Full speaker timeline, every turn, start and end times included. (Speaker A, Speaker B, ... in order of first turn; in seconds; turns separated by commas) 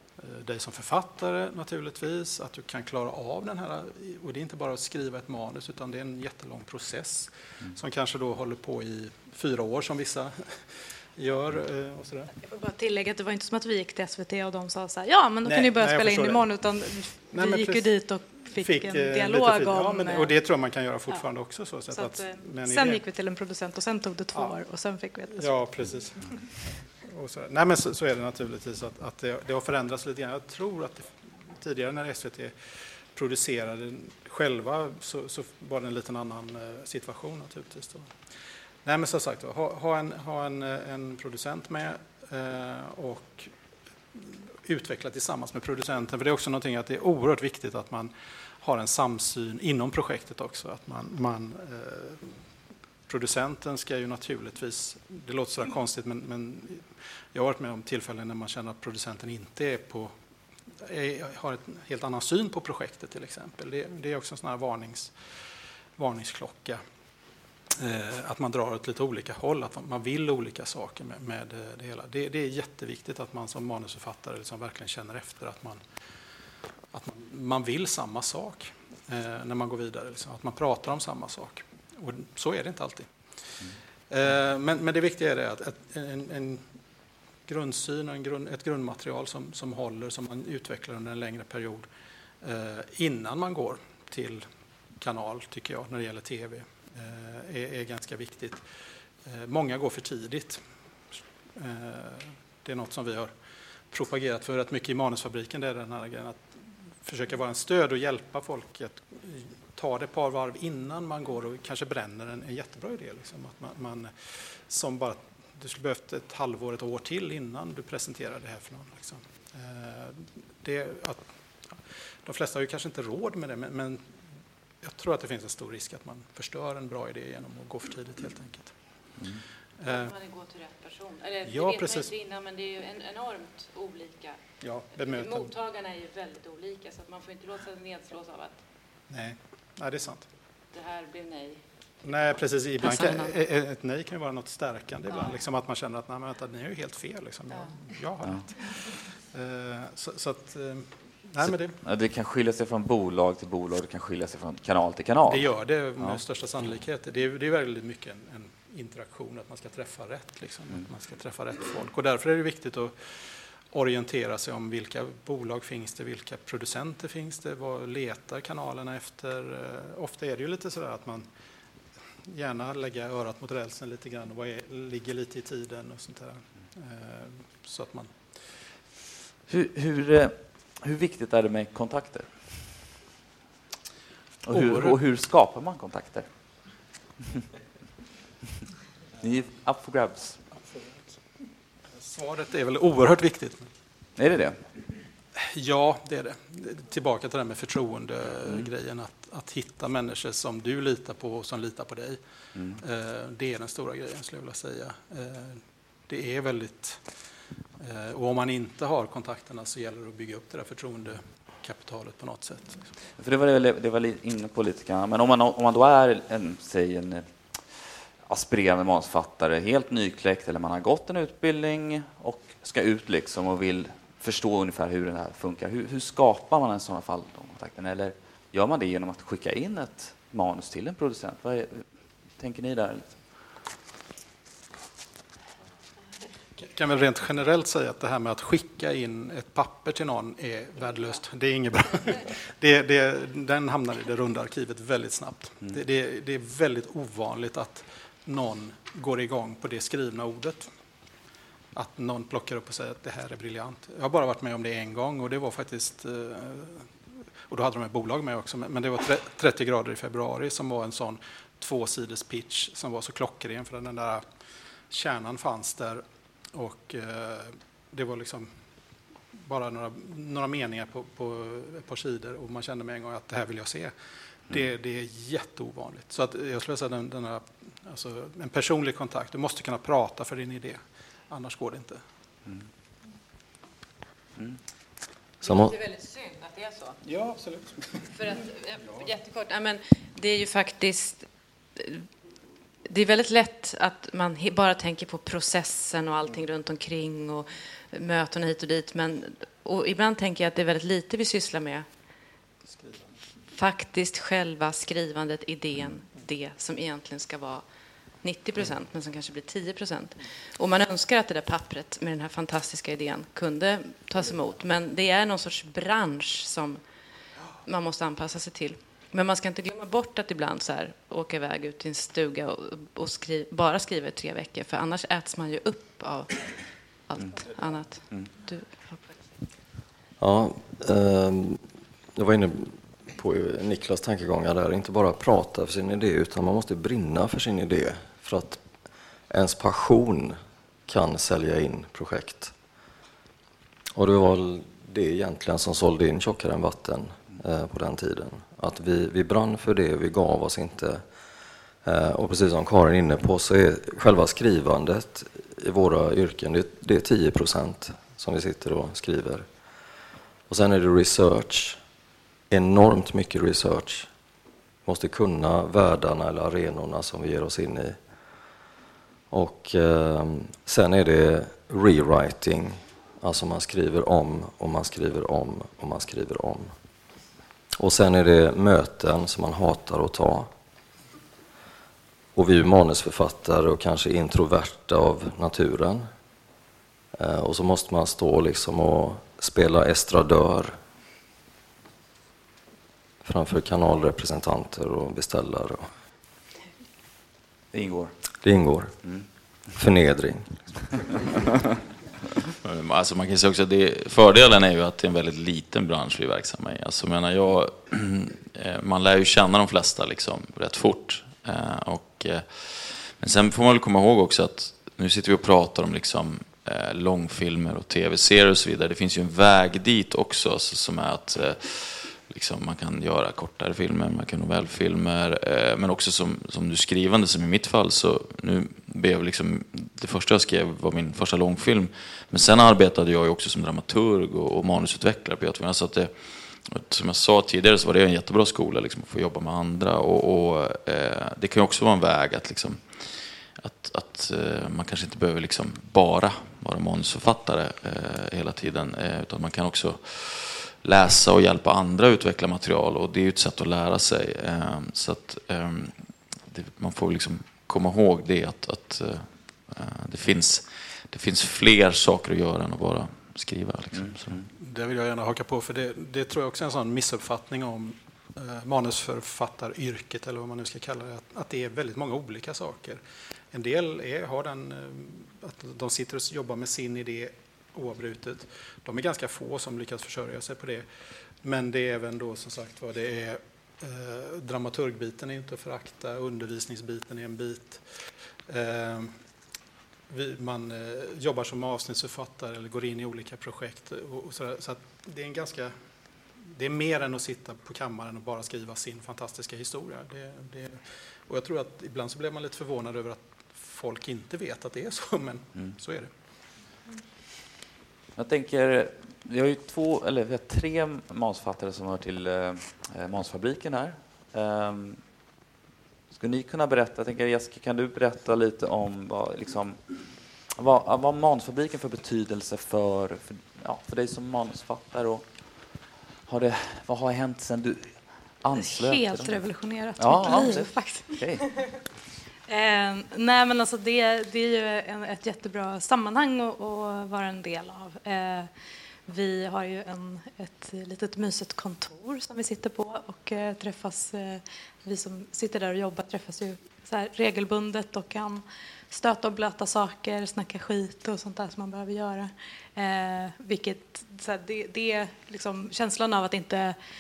Speaker A: 0.2-12.3, Speaker B: 12.4-20.3, Speaker A: 15.4-16.4, Speaker A: 17.3-17.9, Speaker A: 18.5-23.0, Speaker B: 21.9-25.6, Speaker A: 25.3-26.4, Speaker A: 27.1-38.1, Speaker A: 38.8-43.5, Speaker A: 44.1-52.4, Speaker A: 53.1-60.1, Speaker A: 60.8-65.2, Speaker A: 66.0-66.8, Speaker A: 67.8-75.8, Speaker A: 76.9-86.6, Speaker A: 87.5-91.9, Speaker A: 92.4-94.5, Speaker A: 95.0-98.6, Speaker A: 99.2-100.6, Speaker A: 101.5-103.3, Speaker A: 103.9-121.2, Speaker A: 122.2-124.0, Speaker A: 124.8-128.7, Speaker C: 129.2-129.4, Speaker A: 129.8-130.1, Speaker D: 129.9-134.4, Speaker A: 131.5-132.1, Speaker A: 134.6-135.5, Speaker D: 135.1-138.6, Speaker A: 139.1-140.3, Speaker D: 140.7-141.6, Speaker A: 142.0-151.8, Speaker D: 142.8-143.3, Speaker C: 151.4-155.5, Speaker A: 155.3-171.3, Speaker A: 172.3-178.6, Speaker C: 179.5-182.8, Speaker C: 184.4-186.3, Speaker A: 184.5-185.0, Speaker C: 189.2-190.4, Speaker A: 192.0-193.7, Speaker C: 194.2-194.6, Speaker A: 195.3-202.2, Speaker C: 202.6-202.8, Speaker A: 202.7-207.0, Speaker A: 207.8-212.9, Speaker C: 213.2-233.5, Speaker A: 236.6-250.7, Speaker A: 251.7-256.9, Speaker A: 257.5-264.2, Speaker A: 264.9-268.5, Speaker A: 269.4-273.9, Speaker A: 274.5-282.0, Speaker E: 285.4-285.8, Speaker D: 285.9-286.9, Speaker A: 287.0-288.1, Speaker D: 288.1-292.1, Speaker D: 292.8-301.9, Speaker A: 302.7-303.1, Speaker D: 303.5-307.6, Speaker D: 308.2-316.8, Speaker D: 317.6-326.5, Speaker D: 327.1-329.1, Speaker E: 330.2-331.6, Speaker E: 332.1-338.6, Speaker E: 339.3-340.4, Speaker E: 340.9-342.5, Speaker E: 343.9-351.0, Speaker E: 351.8-359.4, Speaker E: 360.5-361.8, Speaker E: 362.5-364.1, Speaker E: 364.9-368.0, Speaker E: 369.3-376.7, Speaker E: 377.8-380.5, Speaker E: 382.3-386.1, Speaker E: 387.1-390.8, Speaker E: 393.2-395.9, Speaker C: 397.7-398.1, Speaker E: 398.4-398.9, Speaker E: 399.7-400.6, Speaker F: 402.6-464.4, Speaker C: 463.9-464.4, Speaker A: 464.5-480.9, Speaker A: 481.4-487.8, Speaker A: 488.5-489.1, Speaker A: 490.1-495.8, Speaker A: 496.5-506.1, Speaker C: 508.1-515.0, Speaker C: 516.1-529.4, Speaker B: 528.5-531.7, Speaker C: 530.0-531.8, Speaker B: 532.5-538.5, Speaker B: 539.0-556.8